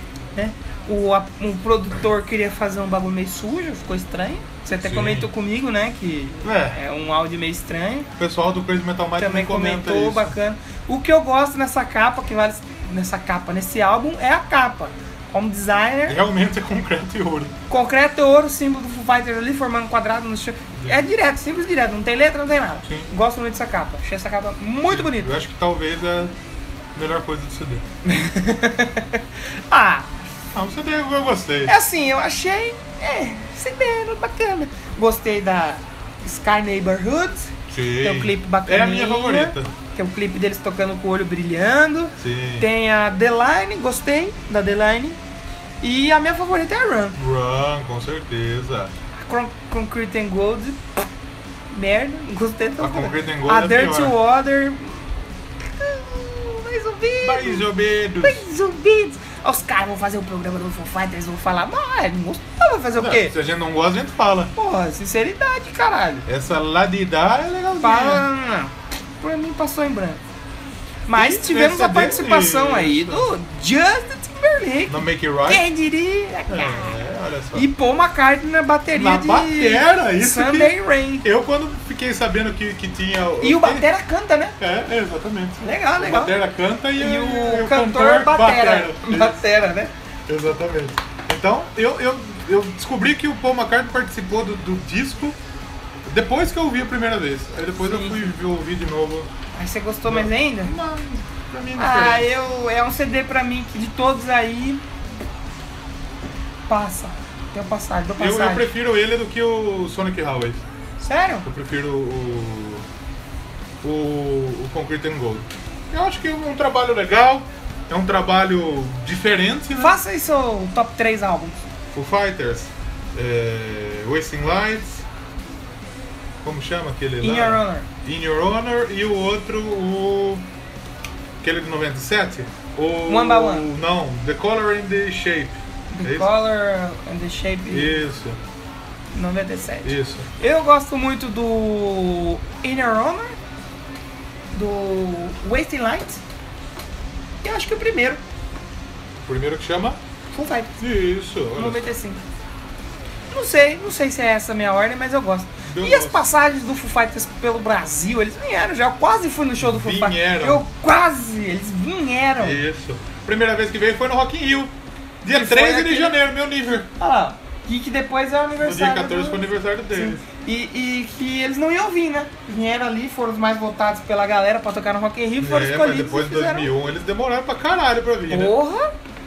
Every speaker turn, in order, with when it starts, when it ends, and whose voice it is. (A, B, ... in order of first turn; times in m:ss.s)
0:00.3-0:08.1 A
0:04.8-0:05.3 B
0:06.4-0:06.8 B
0:08.2-0:10.4 B
0:09.2-0:16.2 A
0:16.0-0:17.6 B
0:17.7-0:25.3 A
0:22.8-0:23.1 B
0:24.9-0:26.3 B
0:26.9-0:27.8 B
0:28.0-0:30.1 A
0:30.5-0:31.7 B
0:31.6-0:45.2 A
0:37.7-0:39.7 B
0:42.2-0:42.7 B
0:45.8-0:47.2 A
0:47.1-0:48.9 B
0:49.1-0:50.8 A
0:51.7-0:55.2 A
0:52.8-0:54.2 B
0:55.8-0:57.6 A
0:57.2-0:58.4 B
0:58.2-1:03.3 A
1:03.0-1:04.5 B
1:04.6-1:06.3 A
1:06.3-1:08.2 B
1:07.8-1:10.2 A
1:11.1-1:17.0 A
1:11.1-1:13.3 B
1:14.9-1:15.6 B
1:16.5-1:17.7 B
1:17.5-1:21.3 A
1:18.9-1:23.9 B
1:23.4-1:24.6 A
1:24.6-1:29.4 B
1:25.6-1:26.4 A
1:27.0-1:29.9 A
1:30.3-1:35.4 B
1:36.0-1:39.3 B
1:37.8-1:38.3 A
1:39.5-1:40.7 A
1:40.0-1:42.3 B
1:41.8-1:44.8 A
1:46.7-1:48.7 A
1:48.2-1:50.6 B
1:51.0-1:51.5 A
1:51.4-1:52.9 B
1:53.8-2:00.0 B
1:59.8-2:01.6 A
2:01.9-2:05.0 B
2:06.4-2:10.4 B
2:07.2-2:07.9 A
2:11.4-2:16.3 B
2:13.1-2:13.7 A
2:15.9-2:18.0 A
2:17.7-2:18.4 B
2:19.1-2:23.4 A
2:19.8-2:20.3 B
2:24.5-2:26.2 A
2:27.4-2:28.2 A
2:29.2-2:30.0 B
2:30.3-2:30.8 A
2:30.8-2:31.9 B
2:31.6-2:32.2 A
2:33.3-2:42.6 A
2:35.6-2:36.3 B
2:39.6-2:40.6 B
2:42.4-2:46.9 B
2:45.3-2:46.2 A
2:47.0-2:56.7 A
2:48.6-2:50.2 B
2:55.4-2:58.6 B
2:58.3-2:58.9 A